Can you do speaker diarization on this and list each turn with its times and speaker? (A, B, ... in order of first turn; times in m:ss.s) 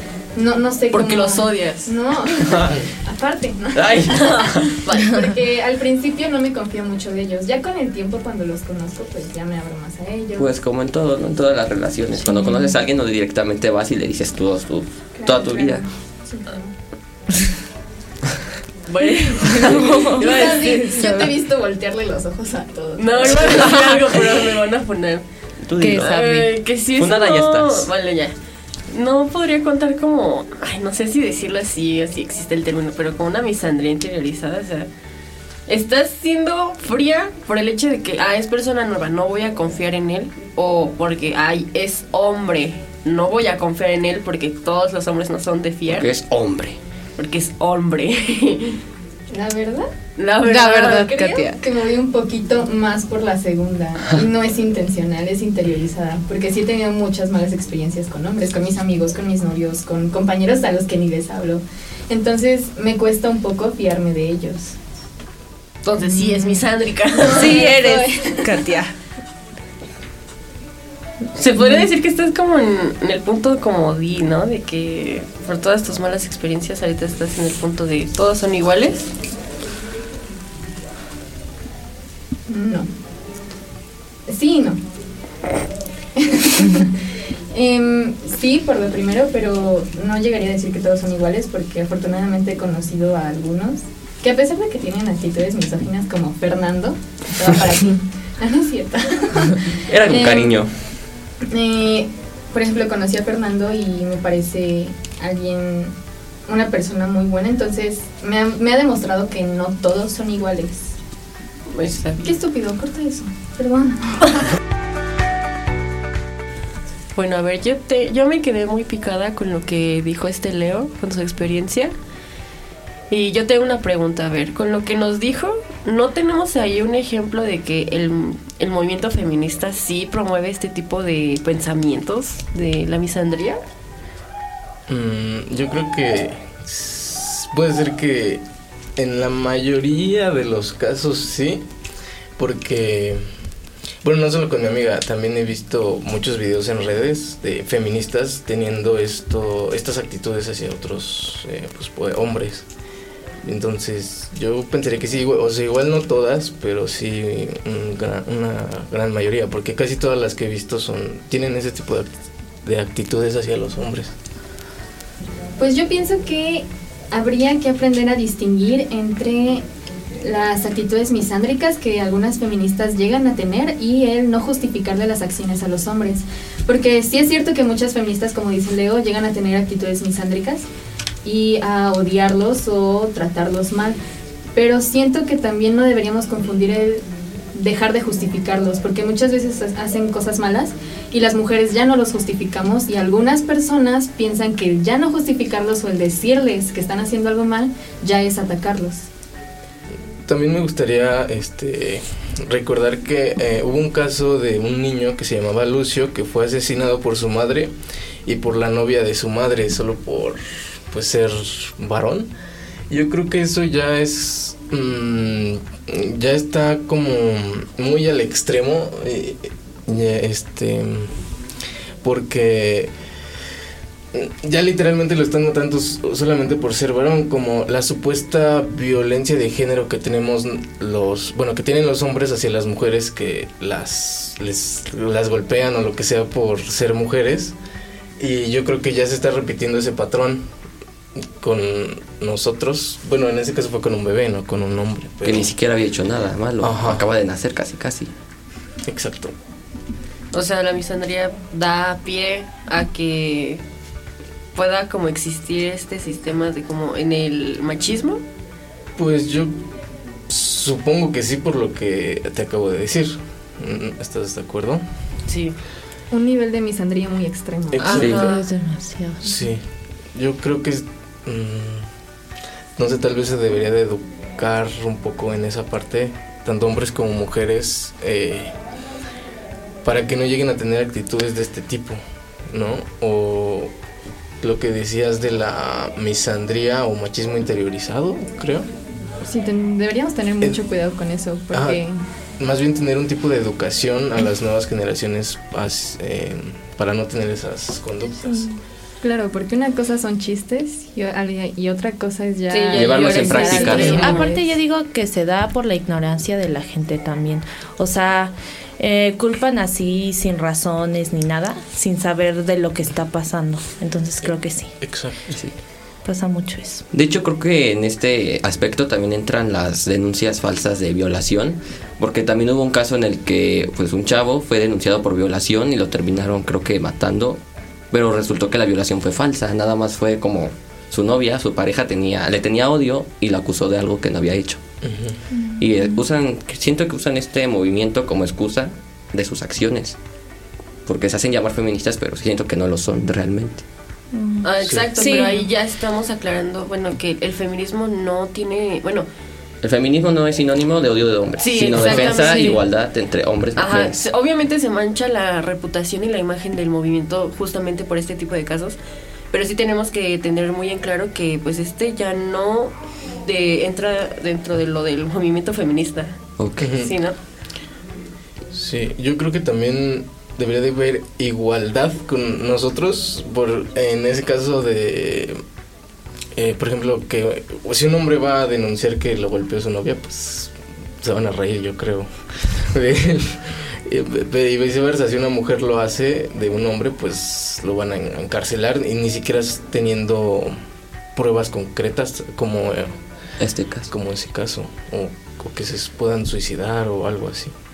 0:00.4-0:04.4 A
0:00.9-0:01.9 B
0:02.5-0:02.8 C
0:03.7-0:04.8 C
0:04.1-0:05.1 B
0:05.0-0:10.5 A
0:10.4-0:15.9 C
0:12.3-0:12.7 D
0:15.2-0:16.7 A
0:18.9-0:20.9 B
0:19.5-0:21.3 D
0:20.0-0:23.9 A
0:23.0-0:25.2 B
0:23.7-0:24.0 D
0:25.6-0:26.4 C
0:25.8-0:26.5 D
0:26.0-0:28.3 B
0:26.9-0:27.9 C
0:28.9-0:34.9 B
0:35.7-0:46.1 B
0:45.9-0:46.8 C
0:47.2-0:48.8 B
0:49.3-0:49.9 A
0:50.2-0:51.4 B
0:50.4-0:51.6 D
0:51.2-1:04.8 A
1:05.8-1:07.6 B
1:07.2-1:08.7 A
1:07.3-1:08.9 D
1:11.3-1:19.1 B
1:22.5-1:22.9 A
1:24.3-1:24.8 A
1:26.2-1:27.0 A
1:27.5-1:40.6 A
1:39.9-1:40.7 C
1:41.5-1:45.9 A
1:46.5-1:51.0 A
1:51.7-1:52.3 B
1:52.2-1:54.4 A
1:57.1-2:01.9 B
2:03.1-2:13.6 B
2:14.9-2:18.4 E
2:19.0-2:21.6 E
2:22.4-2:23.3 E
2:24.0-2:32.6 E
2:33.4-2:44.1 E
2:45.6-2:49.6 A
2:50.2-3:00.7 A
3:01.2-3:04.0 A
3:04.5-3:19.1 A
3:20.2-3:27.7 E
3:28.2-3:32.3 E
3:32.9-3:41.2 E
3:42.0-3:42.9 E
3:44.1-3:57.5 E
3:58.2-4:00.5 E
4:01.4-4:05.5 E
4:05.2-4:08.1 C
4:06.6-4:07.0 E
4:08.8-4:09.3 E
4:10.3-4:13.6 B
4:14.5-4:18.2 B
4:19.0-4:19.6 E
4:20.3-4:24.8 E
4:25.3-4:25.5 B
4:26.1-4:28.3 A
4:27.7-4:28.2 E
4:27.8-4:28.4 B
4:27.9-4:28.2 C
4:28.2-4:29.4 D
4:29.2-4:29.6 E
4:30.1-4:31.9 E
4:32.8-4:38.5 E
4:39.8-4:43.7 E
4:44.4-4:48.7 E
4:49.2-4:52.0 A
4:51.5-4:51.8 E
4:52.4-4:58.5 E
4:58.3-4:58.6 D
4:59.0-5:04.5 A
5:02.5-5:14.8 D
5:02.7-5:04.3 C
5:14.8-5:15.2 E
5:15.3-5:15.6 C
5:16.0-5:16.8 D
5:16.9-5:34.6 C
5:34.8-5:35.2 E
5:35.4-5:36.0 D
5:35.6-5:40.0 C
5:40.8-5:43.6 C
5:44.1-5:45.5 D
5:44.4-5:49.0 B
5:44.6-5:44.9 E
5:49.6-5:54.0 C
5:51.4-5:52.6 B
5:53.6-5:58.8 B
5:59.3-6:07.2 B
6:06.4-6:06.7 C
6:06.6-6:06.9 E
6:08.5-6:15.4 E
6:16.3-6:30.6 E
6:31.1-6:33.0 E
6:33.4-6:33.9 C
6:33.9-6:37.5 E